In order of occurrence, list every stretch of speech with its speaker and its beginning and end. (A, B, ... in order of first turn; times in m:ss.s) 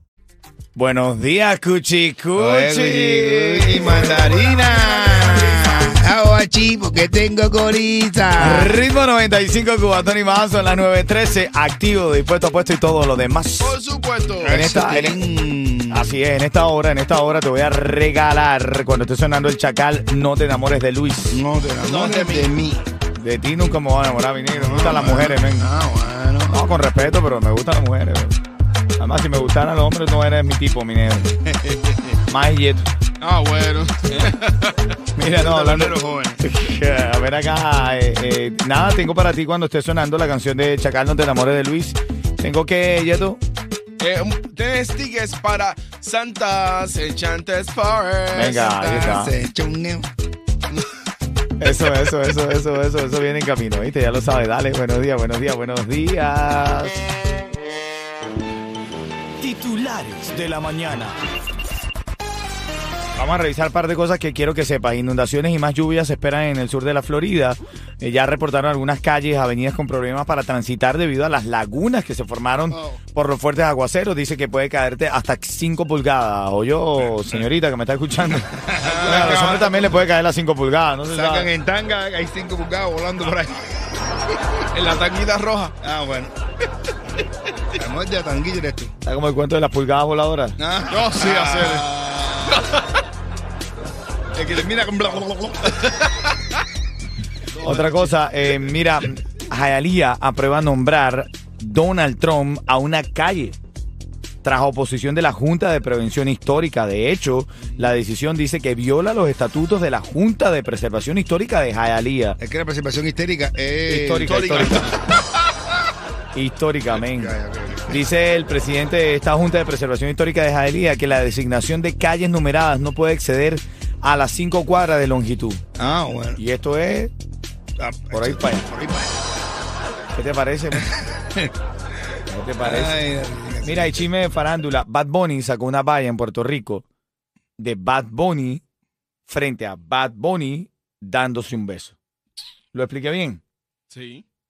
0:00.8-0:04.1 A
0:02.4-0:08.8 B
0:04.0-0:05.8 C
0:08.4-0:13.8 A
0:13.6-0:14.6 C
0:14.4-0:16.2 B
0:14.5-0:15.2 A
0:15.9-0:21.4 A
0:21.3-0:22.8 B
0:21.8-0:22.5 C
0:23.2-0:25.7 A
0:24.5-0:26.6 B
0:26.5-0:28.4 A
0:29.0-0:31.3 A
0:31.5-0:32.2 B
0:32.3-0:32.9 A
0:33.2-0:35.0 C
0:35.2-0:43.4 A
0:35.2-0:36.4 B
0:44.0-0:49.0 C
0:48.3-0:49.3 A
0:48.7-0:50.1 B
0:51.6-0:57.0 A
0:59.4-1:01.2 A
1:03.2-1:21.5 A
1:12.7-1:13.0 B
1:18.6-1:19.8 B
1:18.8-1:19.8 C
1:21.1-1:23.9 B
1:24.7-1:25.8 C
1:25.8-1:26.4 B
1:27.7-1:28.9 B
1:29.0-1:30.6 A
1:30.6-1:32.7 B
1:30.9-1:31.9 C
1:34.4-1:35.8 B
1:35.9-1:36.1 C
1:37.6-1:43.6 A
1:37.6-1:38.1 C
1:44.4-1:52.4 A
1:52.4-1:54.4 B
1:53.9-1:54.9 A
1:54.2-1:55.1 C
1:56.3-1:57.4 A
1:56.9-1:58.0 B
1:57.9-2:05.6 A
2:05.8-2:06.4 B
2:06.4-2:07.1 A
2:07.8-2:09.2 B
2:08.1-2:08.6 A
2:10.2-2:10.9 A
2:10.8-2:11.5 B
2:12.3-2:13.0 A
2:12.6-2:14.1 B
2:13.6-2:16.8 A
2:17.6-2:18.6 A
2:19.3-2:22.0 A
2:22.7-2:23.4 A
2:23.9-2:24.2 C